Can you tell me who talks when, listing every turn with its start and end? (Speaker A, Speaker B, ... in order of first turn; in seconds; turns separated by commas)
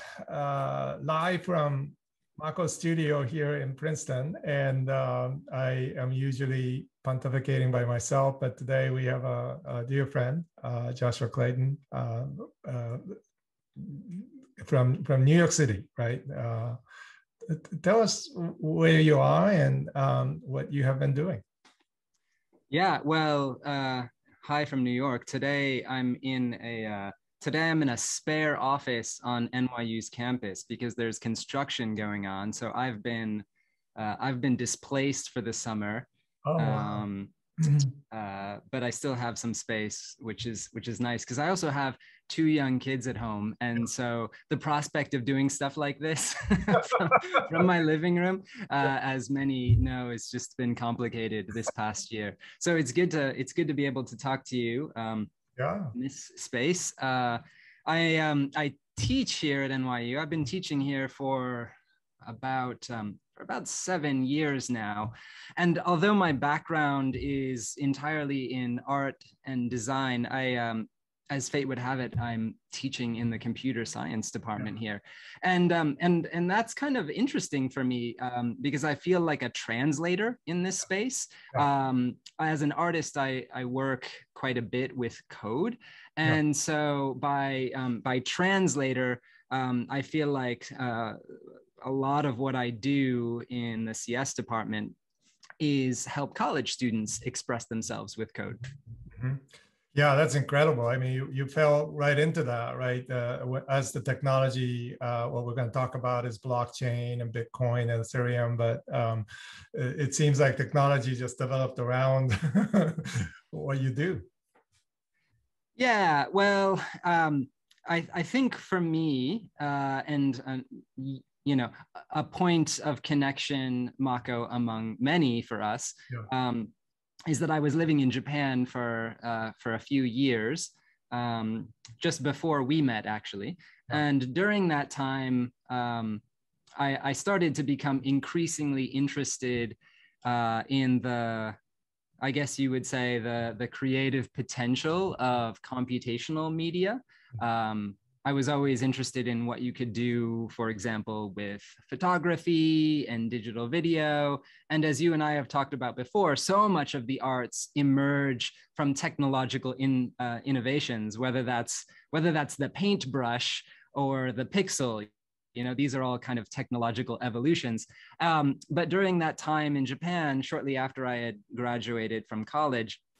Speaker A: 0.2-13.2, Speaker A: 13.8-16.8, Speaker A: 17.5-21.4, Speaker B: 22.7-33.4, Speaker B: 34.0-37.3, Speaker A: 36.5-37.0, Speaker B: 38.1-55.3, Speaker A: 55.5-55.9, Speaker B: 55.9-91.2, Speaker B: 91.8-94.9, Speaker B: 95.6-98.6, Speaker A: 99.2-99.4, Speaker A: 99.9-114.3, Speaker B: 115.8-126.7, Speaker B: 127.3-136.2, Speaker B: 136.8-141.6, Speaker B: 142.2-173.0